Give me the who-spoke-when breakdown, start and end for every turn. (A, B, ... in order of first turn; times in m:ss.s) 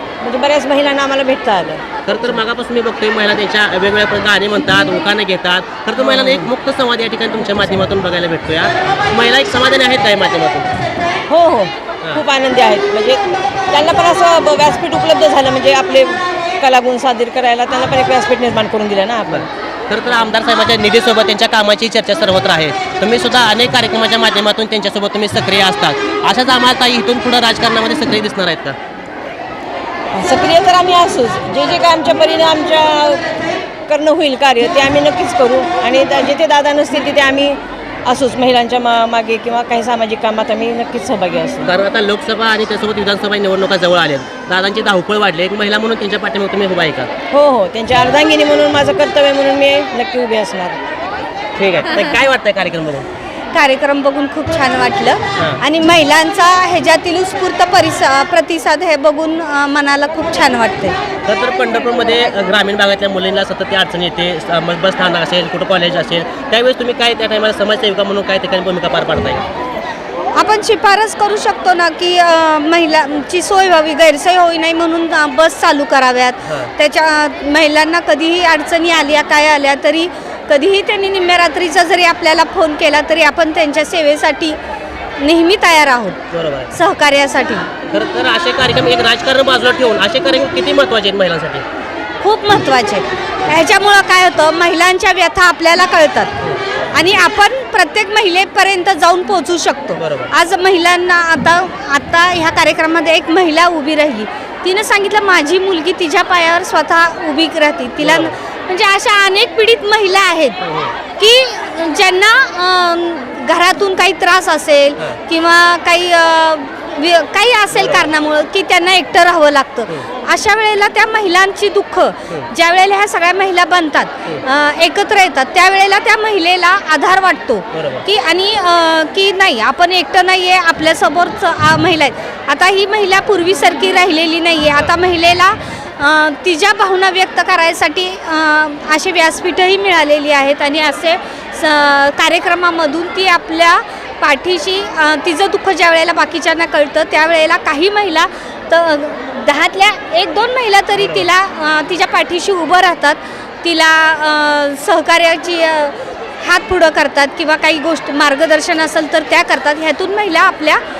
0:00.2-0:01.8 A
0:02.0-0:10.7 B
0:06.0-0:06.5 A
0:11.3-0:19.5 A
0:19.3-0:28.8 B
0:30.1-0:33.3 A
0:33.9-0:41.7 A
0:41.6-0:47.1 B
0:47.3-0:50.8 A
0:51.6-0:53.0 B
0:53.5-1:01.0 C
0:55.4-0:55.6 B
1:01.2-1:09.4 B
1:10.4-1:24.6 C
1:16.4-1:16.7 B
1:25.2-1:26.2 C
1:26.3-1:26.7 B
1:26.7-1:27.7 C
1:27.9-1:31.6 B
1:32.2-1:36.3 C
1:36.4-1:36.7 B
1:36.9-1:50.6 C
1:40.0-1:40.3 B
1:48.0-1:48.3 B
1:50.6-1:50.9 B
1:51.2-2:40.8 C
1:57.7-1:58.1 B
2:07.7-2:08.0 B
2:31.0-2:31.3 B